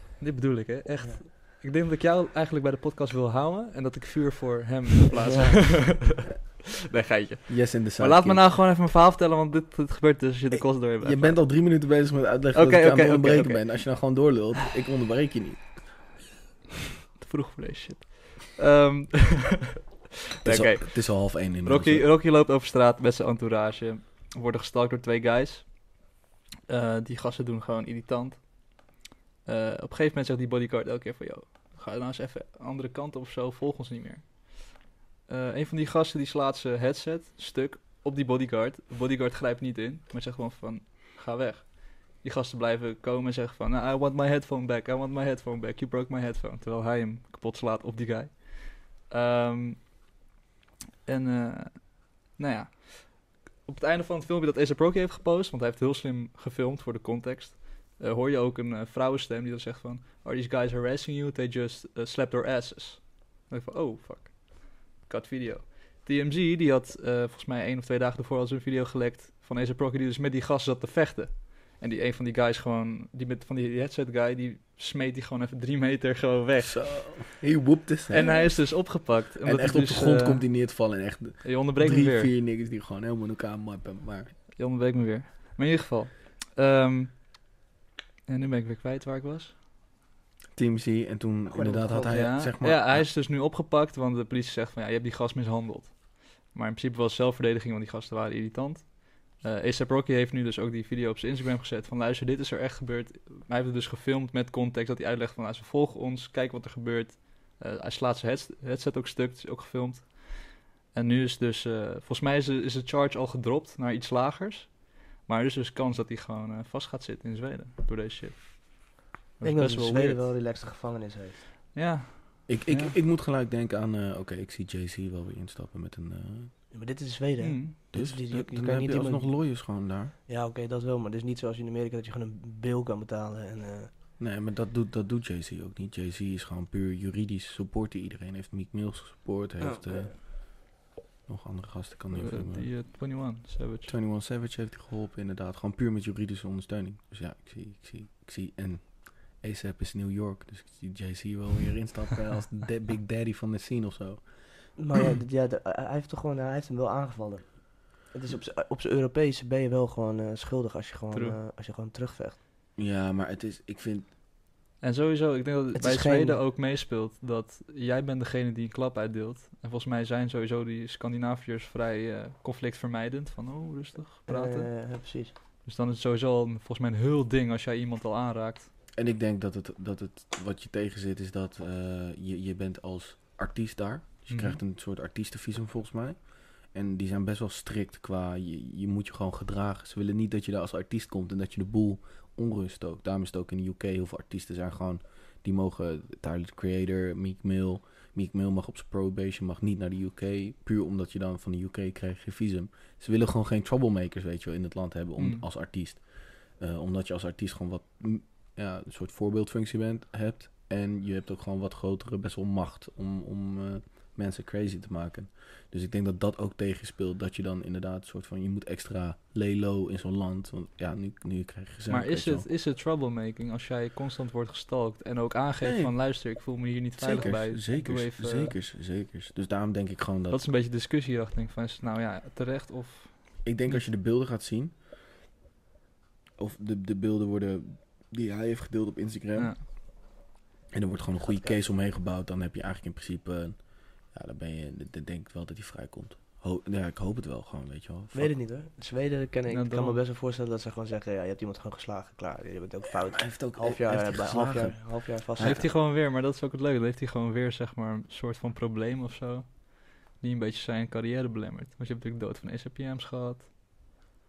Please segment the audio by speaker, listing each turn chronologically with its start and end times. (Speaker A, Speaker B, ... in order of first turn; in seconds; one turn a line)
Speaker A: 0.2-11.5
Speaker B: 5.2-5.9
Speaker C: 7.5-8.5
Speaker C: 11.0-15.9
Speaker A: 12.5-13.8
Speaker A: 17.2-19.8
Speaker A: 20.4-26.1
Speaker C: 20.4-22.1
Speaker A: 26.7-28.5
Speaker A: 29.4-34.7
Speaker A: 35.3-49.9
Speaker A: 51.0-77.4
Speaker C: 76.6-78.6
Speaker A: 78.1-80.7
Speaker C: 79.4-84.3
Speaker A: 81.4-82.3
Speaker A: 84.5-87.3
Speaker A: 88.3-89.6
Speaker C: 90.5-93.0
Speaker B: 91.5-92.3
Speaker A: 92.1-118.8
Speaker A: 119.4-120.3
Speaker B: 119.4-121.4
Speaker A: 121.7-123.0
Speaker C: 122.5-126.6
Speaker B: 126.7-129.6
Speaker A: 127.4-127.8
Speaker C: 127.9-130.1
Speaker B: 130.3-133.9
Speaker C: 134.2-140.6
Speaker B: 139.6-140.2
Speaker C: 141.3-142.8
Speaker A: 142.1-143.9
Speaker C: 143.9-154.3
Speaker B: 154.8-162.4
Speaker A: 161.1-161.4
Speaker C: 162.8-164.1
Speaker A: 164.8-174.9
Speaker B: 165.8-166.4
Speaker B: 174.3-175.3
Speaker A: 175.6-178.7
Speaker C: 178.9-222.5
Speaker A: 184.3-184.6
Speaker A: 205.2-205.4
Speaker A: 221.9-228.6
Speaker C: 225.6-226.2
Speaker C: 227.0-230.4
Speaker A: 230.3-233.9
Speaker C: 233.4-234.7
Speaker C: 236.4-239.6
Speaker A: 239.3-239.6
Speaker C: 240.7-248.3
Speaker B: 241.2-241.6
Speaker B: 248.1-255.7
Speaker A: 249.5-250.0
Speaker C: 252.9-255.7
Speaker A: 255.4-263.5